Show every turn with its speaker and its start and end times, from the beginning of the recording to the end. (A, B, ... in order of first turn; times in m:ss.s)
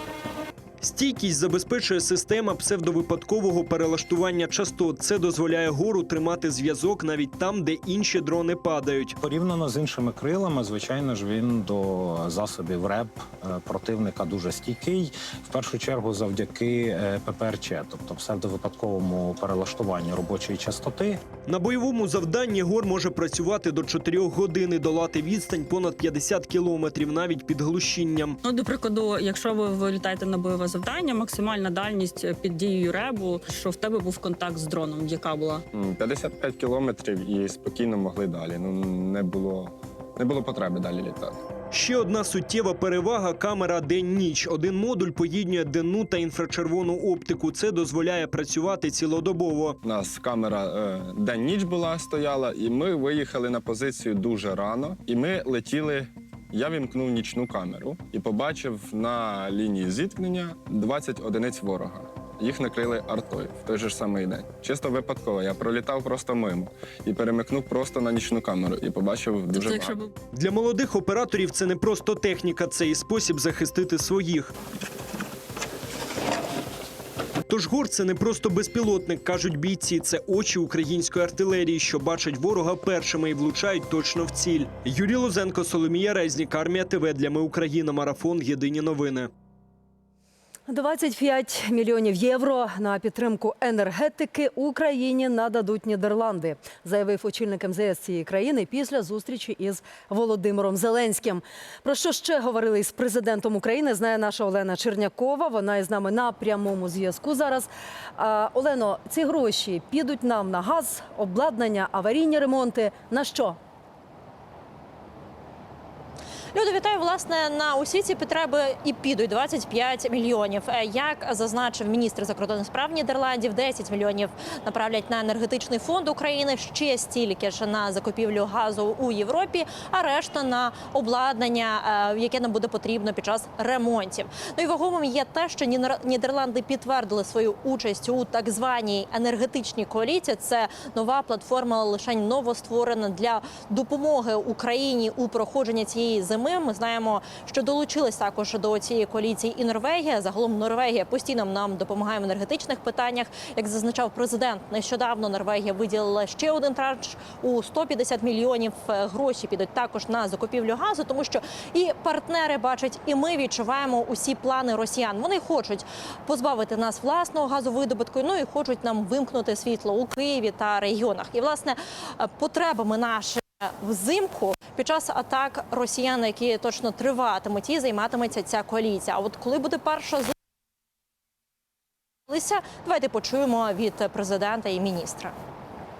0:00.8-0:09.2 A
0:09.2-0:21.2 B
0:21.5-0:28.4 A
0:28.4-0:35.6 C
0:35.7-0:41.4 D
0:41.7-0:49.8 A
0:49.8-1:10.0 D
1:09.5-1:10.1 C
1:10.3-1:14.5 A
1:17.5-1:29.3 A
1:30.7-1:53.6 E
1:56.5-3:00.3 F
3:02.3-3:05.3 F